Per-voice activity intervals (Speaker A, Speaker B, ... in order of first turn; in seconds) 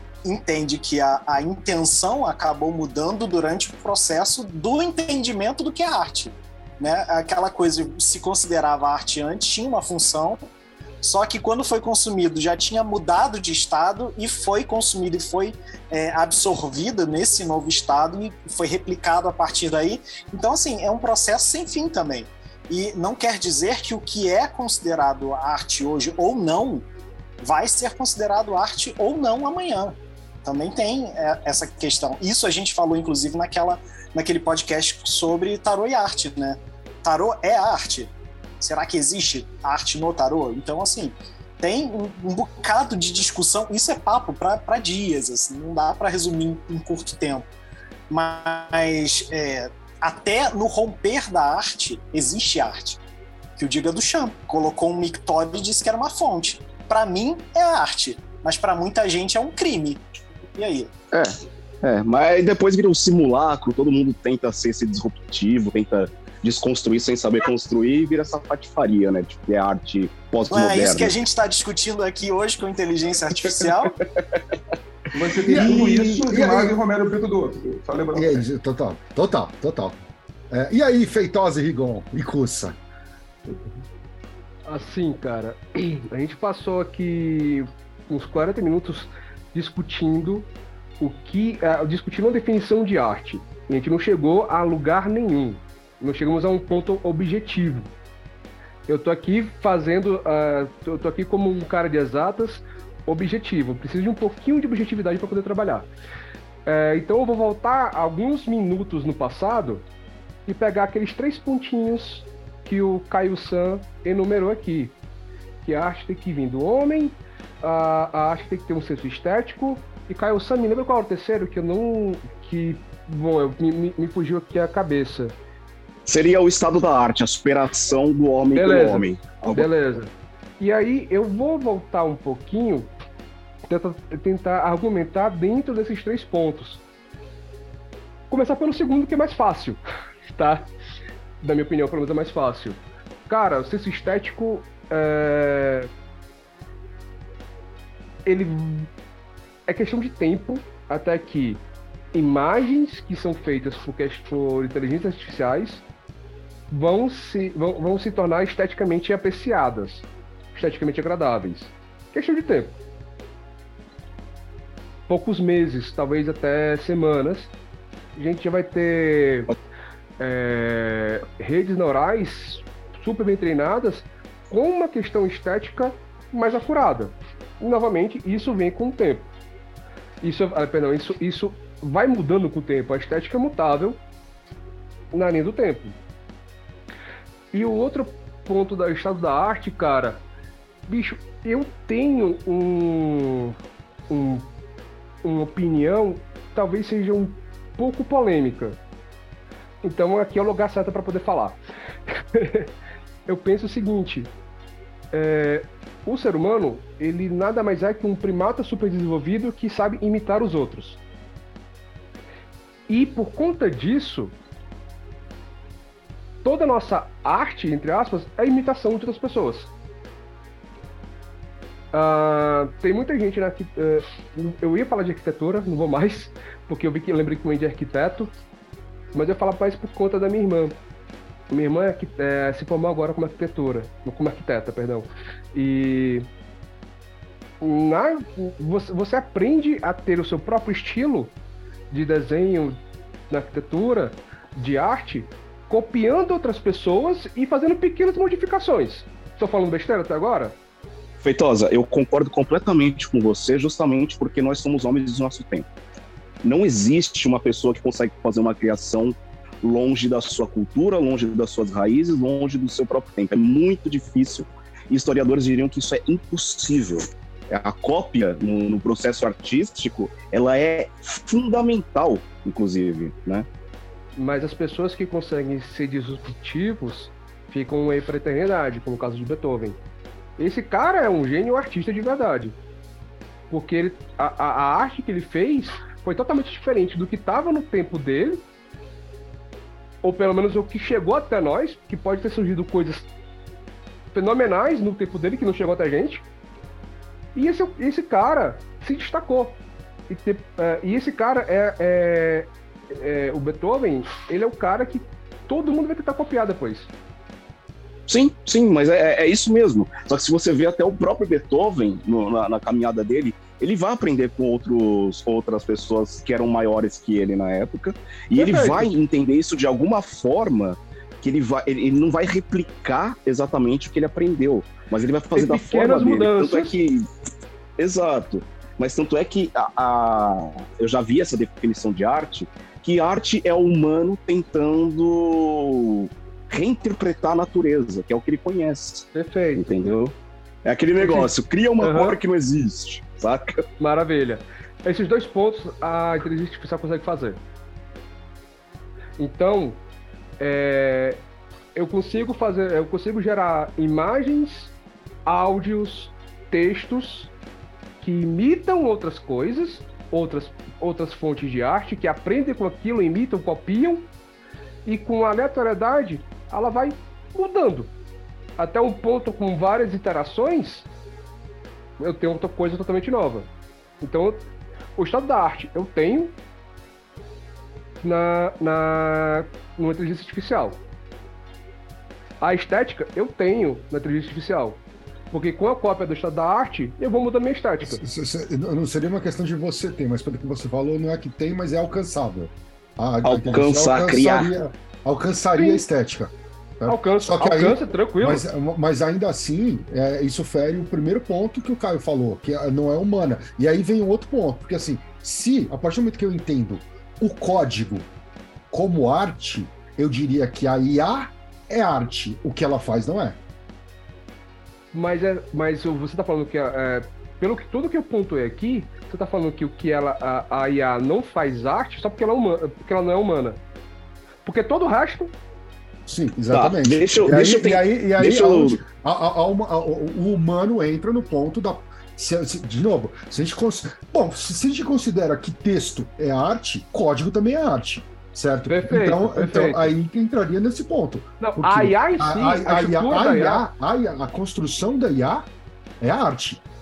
Speaker A: 0.2-10.5, 11.0-26.9, 27.4-47.5, 48.1-53.0, 53.6-60.9, 70.5-73.9
Speaker B: 61.1-71.1, 73.4-74.4, 126.1-129.7, 251.2-255.7, 256.4-273.5, 308.1-327.1, 327.8-343.6, 393.2-394.5, 426.5-428.8
Speaker C: 75.1-78.5
Speaker D: 75.5-76.7, 78.2-82.8, 387.8-408.1, 408.7-413.4, 426.1-445.5, 446.0-446.6
Speaker E: 84.7-90.5, 91.0-97.9, 98.9-105.9, 106.7-109.8, 110.5-115.0, 115.6-125.4, 128.5-132.9, 133.7-136.8, 138.3-139.8, 140.3-140.7, 141.4-145.9, 148.3-148.9, 149.7-151.6, 152.1-155.8, 156.7-162.8, 165.1-167.5, 168.2-169.5, 170.2-179.3, 180.2-184.0, 185.1-186.0, 187.5-190.2, 190.9-193.6, 194.1-194.5, 195.2-198.8, 199.8-201.6, 202.1-202.7, 203.3-204.3, 205.1-211.0, 212.9-214.3, 216.4-219.7, 221.9-228.3, 229.1-230.8, 231.5-236.3, 237.6-241.3, 241.9-250.6, 274.2-279.8, 280.4-282.6, 283.5-288.4, 290.0-293.1, 294.1-296.2, 297.4-306.9, 318.4-318.9, 325.4-326.7, 339.1-339.8, 341.0-342.2, 343.8-347.4, 349.2-349.8, 350.4-351.2, 351.8-354.7, 355.3-357.3, 358.0-364.1, 364.9-367.9, 368.6-370.9, 372.0-373.5, 374.0-376.3, 378.0-380.8, 382.4-384.8, 385.3-388.0, 395.6-395.9, 396.9-398.5, 414.9-423.6, 424.4-425.3, 438.7-439.9, 441.4-443.7